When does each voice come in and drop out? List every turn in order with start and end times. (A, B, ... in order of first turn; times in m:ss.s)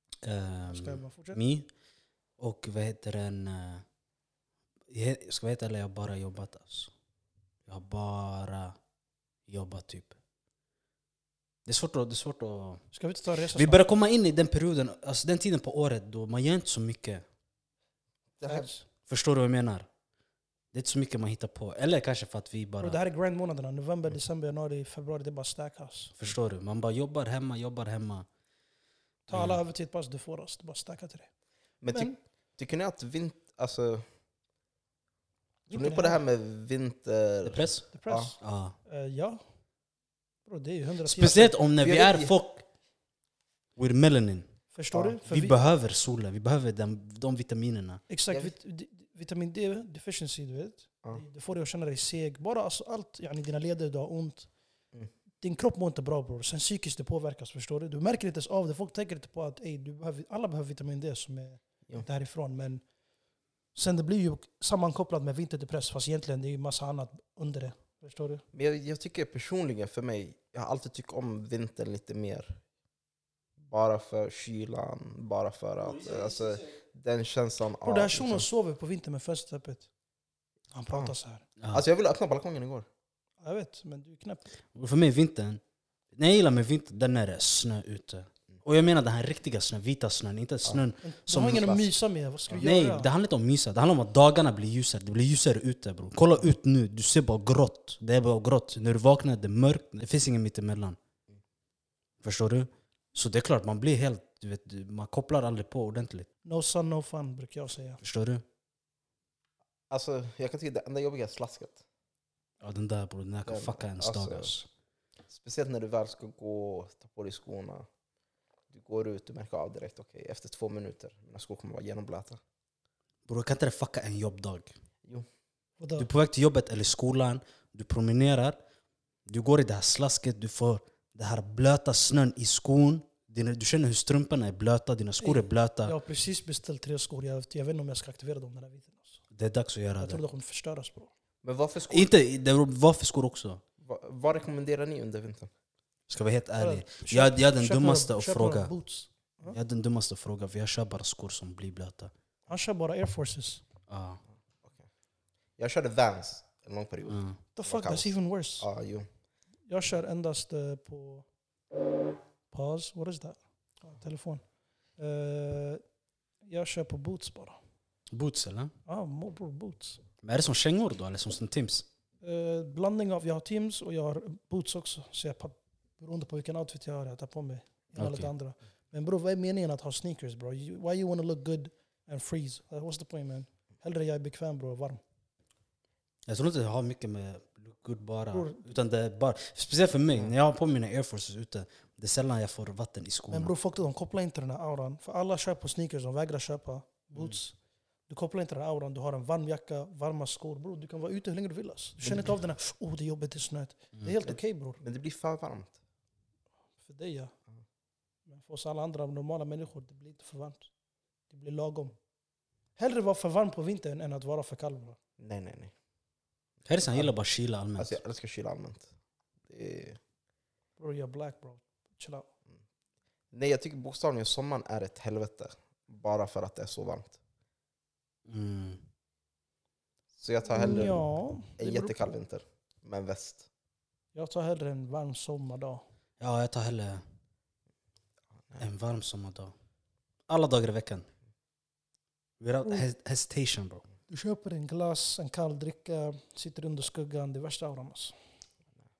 0:00.2-0:01.7 A
0:00.7-0:01.4 B
0:02.4-0:03.8 A
0:04.9-0:06.9 A
0:07.7-0:08.7 A
0:09.5-0:10.2 A
0:11.6-0:12.8 A
0:12.9-0:13.8 B
0:13.5-0:17.2 A
0:18.4-0:18.7 C
0:18.4-0:18.8 B
0:19.1-0:19.9 A
0:20.7-0:23.0 A
0:22.8-0:26.1 B
0:26.2-0:28.3 A
0:29.3-0:31.3 B
0:29.3-0:29.6 A
0:31.8-0:34.0 C
0:31.9-0:32.1 B
0:35.7-0:36.2 B
0:35.7-0:38.3 C
0:37.4-0:37.8 A
0:37.9-0:39.4 B
0:38.4-0:38.8 A
0:40.4-0:41.5 B
0:41.0-0:42.6 A
0:41.8-0:42.3 C
0:43.8-0:44.5 A
0:44.7-0:45.6 B
0:44.9-0:45.2 C
0:45.2-0:48.0 A
0:48.1-0:54.5 B
0:55.4-1:02.8 B
1:03.7-1:08.4 B
1:08.5-1:12.6 C
1:13.6-1:18.4 C
1:16.0-1:16.5 A
1:17.8-1:19.9 B
1:20.7-1:21.4 B
1:21.6-1:21.8 A
1:21.7-1:22.9 C
1:23.4-1:24.5 B
1:24.7-1:25.6 A
1:26.1-1:31.0 A
1:30.6-1:31.9 C
1:31.0-1:33.1 B
1:32.5-1:41.0 A
1:42.2-1:46.3 A
1:46.4-1:48.0 B
1:48.0-1:48.4 A
1:49.9-1:51.8 C
1:52.6-1:54.7 A
1:53.5-1:54.5 C
1:55.3-1:57.8 C
1:58.7-2:02.4 C
2:03.2-2:04.7 A
2:05.8-2:06.1 B
2:06.0-2:08.6 A
2:09.3-2:15.9 A
2:15.2-2:19.2 B
2:19.3-2:20.2 A
2:20.0-2:21.1 B
2:21.4-2:22.1 C
2:21.9-2:23.6 A
2:23.8-2:25.5 C
2:26.1-2:28.7 A
2:26.6-2:29.6 B
2:29.5-2:32.1 A
2:32.5-2:33.6 B
2:33.9-2:34.2 A
2:35.6-2:39.1 C
2:37.1-2:37.4 A
2:37.5-2:38.7 B
2:39.7-2:41.2 B
2:42.5-2:45.8 B
2:46.4-2:47.6 B
2:48.1-2:48.7 A
2:48.8-2:50.0 B
2:50.2-2:51.8 A
2:52.2-3:05.0 B
2:58.0-2:58.3 A
3:06.2-3:13.5 A
3:08.3-3:08.6 B
3:13.3-3:17.5 B
3:18.1-3:24.8 B
3:24.2-3:25.7 C
3:26.8-3:27.3 B
3:28.3-3:30.7 B
3:31.3-3:31.9 B
3:32.8-3:35.0 B
3:35.2-3:35.7 C
3:36.6-3:38.0 A
3:36.8-3:37.1 C
3:37.8-3:38.9 C
3:39.5-3:40.0 C
3:40.8-3:42.3 B
3:43.3-3:47.2 C
3:48.3-3:48.8 A
3:50.2-3:53.4 C
3:50.5-3:52.1 B
3:54.1-3:55.8 B
3:56.2-3:57.0 A
3:58.6-3:59.5 A
4:00.3-4:01.1 A
4:02.4-4:03.8 A
4:04.1-4:08.2 B